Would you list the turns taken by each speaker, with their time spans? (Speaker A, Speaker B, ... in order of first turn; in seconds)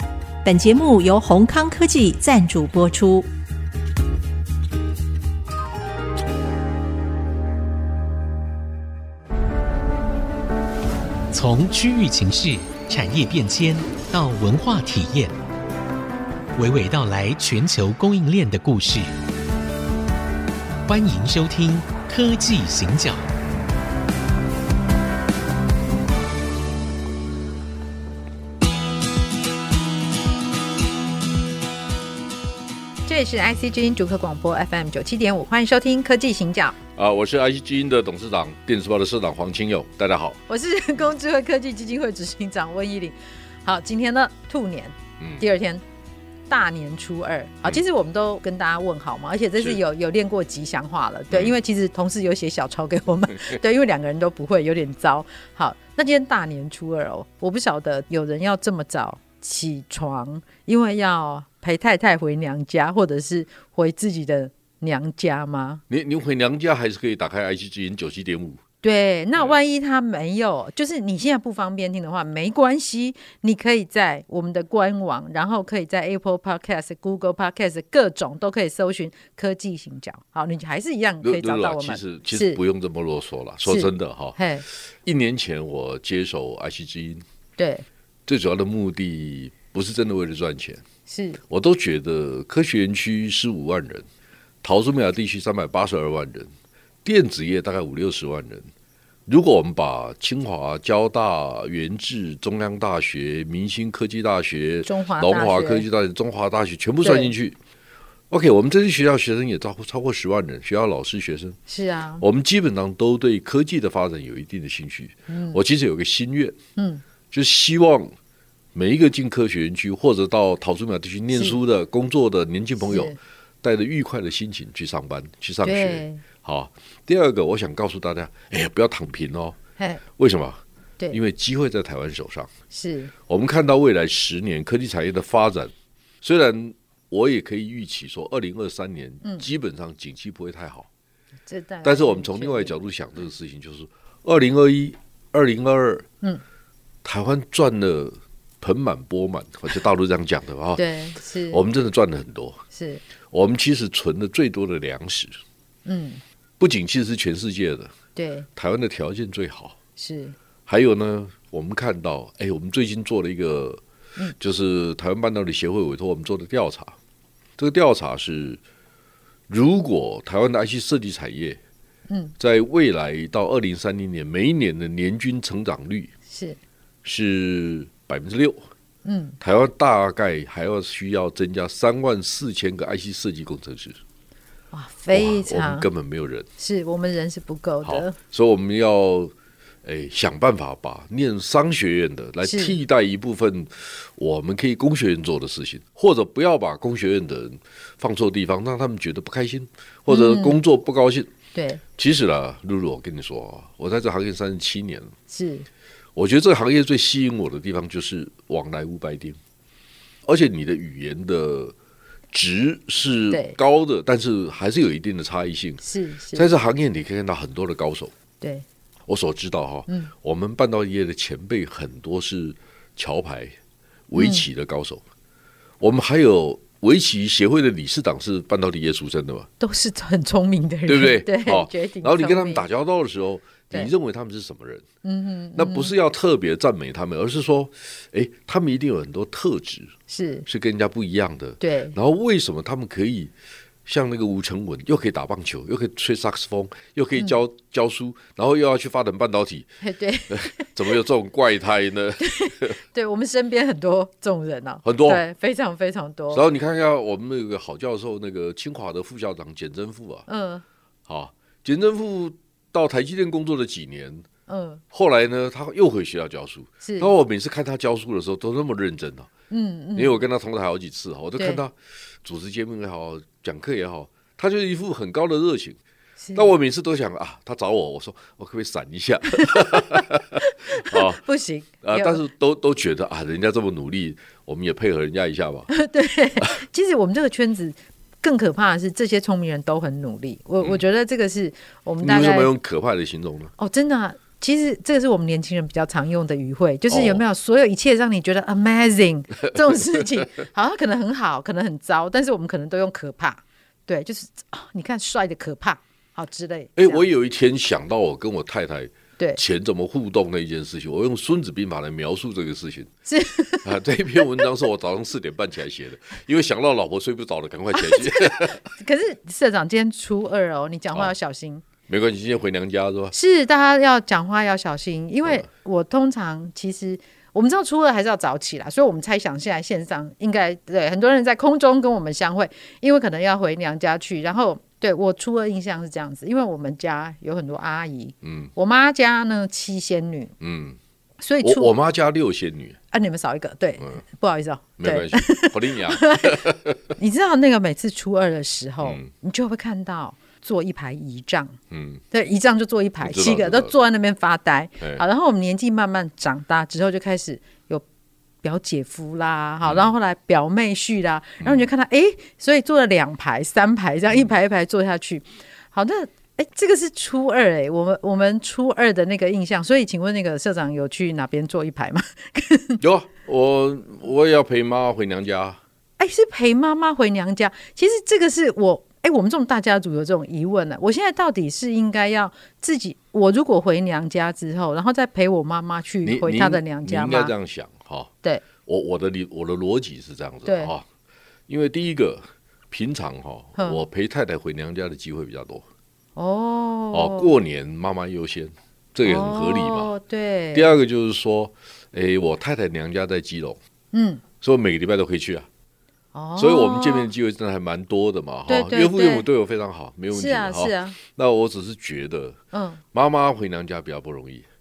Speaker A: 0.4-3.3
Speaker B: 11.3-15.4, 16.6-19.1, 20.9-23.3
Speaker C: 33.1-36.8, 40.5-45.8, 46.5-65.8, 68.8-82.6, 83.7-84.6, 87.6-87.9, 91.1-91.4, 104.9-105.8, 107.0-107.3, 111.7-112.2, 115.3-115.6, 116.8-117.0, 122.8-123.2, 125.6-126.2, 132.7-133.1, 141.5-142.8, 150.8-151.6, 152.7-153.0, 155.9-156.2, 158.2-158.5, 160.0-160.4, 172.1-172.3, 176.3-176.6, 179.1-179.4, 184.7-185.9, 186.6-188.2, 192.4-192.8, 200.1-200.6, 201.6-201.8, 205.3-205.7, 213.3-213.6, 215.8-216.5, 224.2-224.4, 229.6-232.6, 235.0-235.9, 240.1-240.5, 241.6-242.0, 249.8-250.7, 252.2-256.4, 260.3-260.6, 264.5-264.8, 266.8-267.1, 269.5-270.2, 271.4-271.6, 276.2-276.5, 279.4-282.2, 285.7-292.5, 293.6-307.1, 313.1-314.5, 317.7-321.6, 323.1-340.3, 341.2-341.7, 342.9-351.6, 352.1-357.8, 358.4-372.8, 376.0-387.3, 390.5-390.7, 396.2-397.3, 399.0-400.7, 403.9-404.2, 406.1-407.1, 408.5-409.3, 410.1-411.0, 412.5-412.8
Speaker D: 37.0-40.4, 45.2-45.4, 51.3-51.6, 65.9-68.6, 81.2-84.4, 85.0-87.2, 88.3-90.8, 91.5-94.1, 94.6-96.5, 97.0-98.7, 99.3-107.6, 108.3-111.6, 112.2-116.6, 117.3-118.1, 118.7-129.6, 130.2-130.6, 131.1-132.5, 133.3-140.9, 141.8-146.1, 147.0-150.8, 151.5-152.6, 153.3-155.4, 156.6-157.9, 158.6-159.8, 160.7-163.8, 164.4-167.0, 167.6-168.6, 169.5-171.6, 172.4-176.1, 177.0-178.6, 179.4-184.0, 185.1-186.5, 187.8-189.3, 189.8-201.3, 201.9-205.1, 206.2-209.4, 210.3-211.8, 212.3-215.8, 216.3-218.1, 219.1-223.6, 224.1-225.0, 225.8-229.5, 230.9-234.9, 235.6-239.9, 240.5-243.3, 243.9-249.7, 250.3-252.8, 254.8-255.2, 256.3-260.3, 261.1-264.3, 264.9-269.3, 269.9-275.8, 276.4-281.2, 281.8-285.7, 292.0-293.5, 296.9-297.2, 299.7-300.2, 306.8-312.9, 313.6-318.6, 321.9-323.1, 338.2-338.5, 340.4-340.8, 341.4-342.8, 344.8-346.9, 348.8-349.1, 351.7-352.0, 353.0-353.7, 359.6-359.9, 372.8-375.6, 386.0-388.1, 388.6-390.9, 391.5-395.6, 396.9-399.9, 400.5-403.6, 404.4-405.5, 406.4-412.4, 412.9-414.5